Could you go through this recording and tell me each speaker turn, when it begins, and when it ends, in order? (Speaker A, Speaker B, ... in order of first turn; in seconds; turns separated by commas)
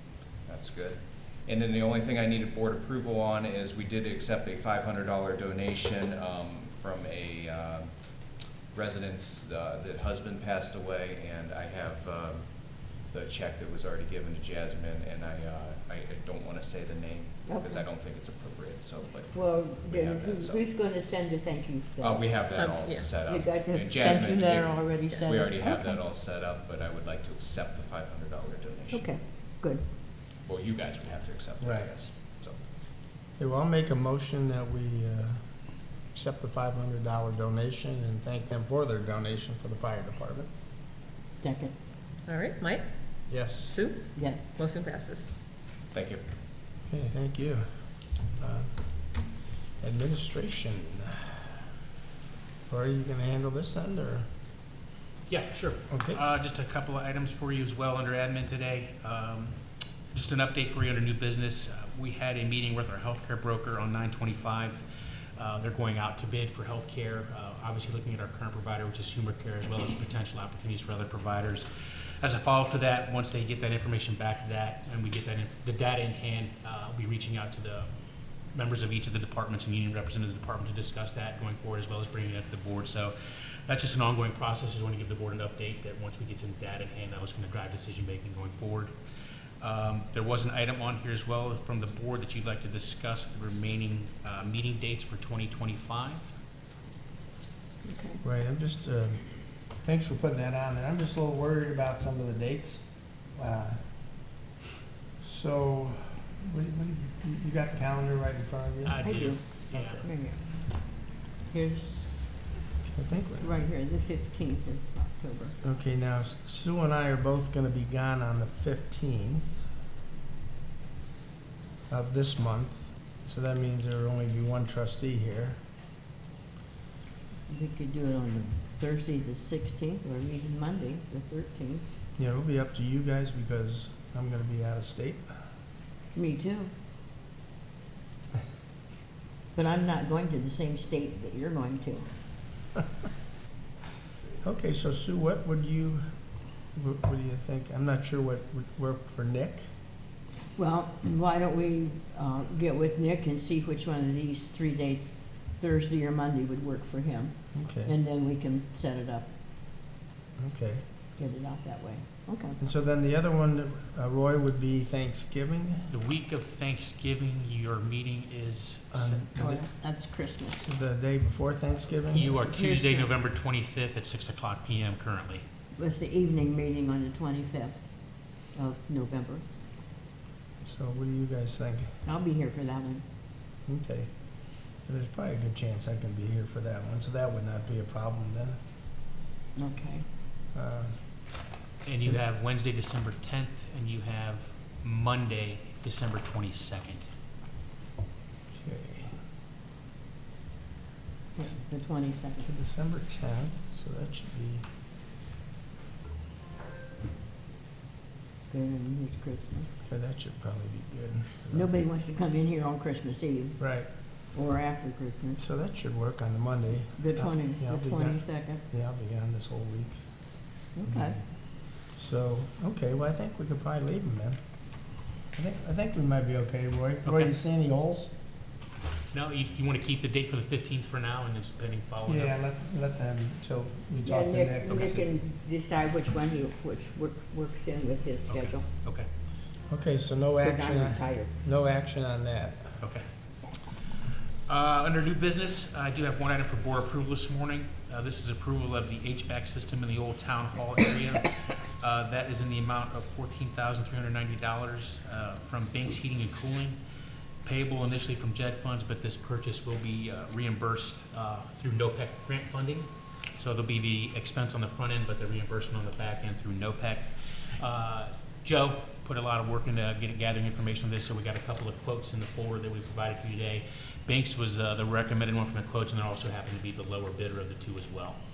Speaker A: 0.4-7.9, Speaker A: 8.7-20.6, Speaker B: 17.5-17.8, Speaker B: 19.2-25.9, Speaker A: 22.0-29.1, Speaker C: 22.5-23.1, Speaker C: 24.0-25.4, Speaker B: 28.9-29.8, Speaker A: 30.4-32.6, Speaker D: 31.6-31.9, Speaker D: 33.4-35.4, Speaker D: 36.1-40.5, Speaker B: 41.4-41.7, Speaker C: 42.3-42.8, Speaker D: 43.3-43.7, Speaker C: 43.6-44.0, Speaker B: 44.1-44.5, Speaker C: 44.5-45.3, Speaker A: 45.9-46.2, Speaker D: 46.9-47.6, Speaker D: 48.4-48.7, Speaker D: 49.8-51.4, Speaker D: 52.7-54.3, Speaker E: 55.3-59.6, Speaker D: 55.9-56.2, Speaker E: 60.1-64.8, Speaker E: 65.3-71.7, Speaker E: 72.2-77.9, Speaker E: 78.5-83.1, Speaker E: 83.7-88.9, Speaker E: 89.6-96.2, Speaker B: 97.8-98.2, Speaker D: 98.2-99.2, Speaker D: 99.8-103.8, Speaker D: 105.2-110.0, Speaker E: 108.8-110.1, Speaker B: 109.0-110.5, Speaker B: 111.5-112.3, Speaker D: 112.8-113.7, Speaker B: 113.4-115.5, Speaker D: 115.6-119.6, Speaker D: 121.9-125.6, Speaker B: 127.5-131.8, Speaker D: 132.2-135.3, Speaker B: 136.1-136.7, Speaker B: 139.5-142.1, Speaker D: 144.4-146.0, Speaker D: 146.7-149.6, Speaker B: 150.6-159.3, Speaker D: 157.5-157.9, Speaker D: 160.4-160.8, Speaker B: 161.2-162.6, Speaker D: 162.6-165.9, Speaker E: 165.9-169.2, Speaker D: 168.9-169.7, Speaker B: 169.4-170.7, Speaker D: 170.6-172.3, Speaker E: 172.1-175.4, Speaker B: 172.2-173.1, Speaker B: 175.7-177.8, Speaker B: 178.5-179.4, Speaker D: 180.6-182.0, Speaker B: 182.0-183.0, Speaker D: 183.7-184.1, Speaker D: 184.8-188.6, Speaker B: 189.6-190.0, Speaker D: 190.5-190.9, Speaker E: 191.8-197.0, Speaker D: 198.5-199.1, Speaker B: 201.3-202.5, Speaker D: 202.4-204.6, Speaker B: 208.5-209.7, Speaker D: 209.8-211.7, Speaker B: 211.5-213.7, Speaker D: 213.6-213.9, Speaker B: 214.3-215.4, Speaker D: 215.4-220.0, Speaker B: 216.9-218.6, Speaker B: 220.8-221.2, Speaker D: 220.8-221.2, Speaker D: 221.8-224.4, Speaker D: 225.3-228.1, Speaker E: 227.0-227.3, Speaker E: 229.1-232.3, Speaker D: 232.0-235.1, Speaker B: 234.0-238.6, Speaker E: 238.3-239.1, Speaker D: 239.7-242.8, Speaker B: 240.4-241.3, Speaker E: 244.5-256.8, Speaker E: 257.4-278.2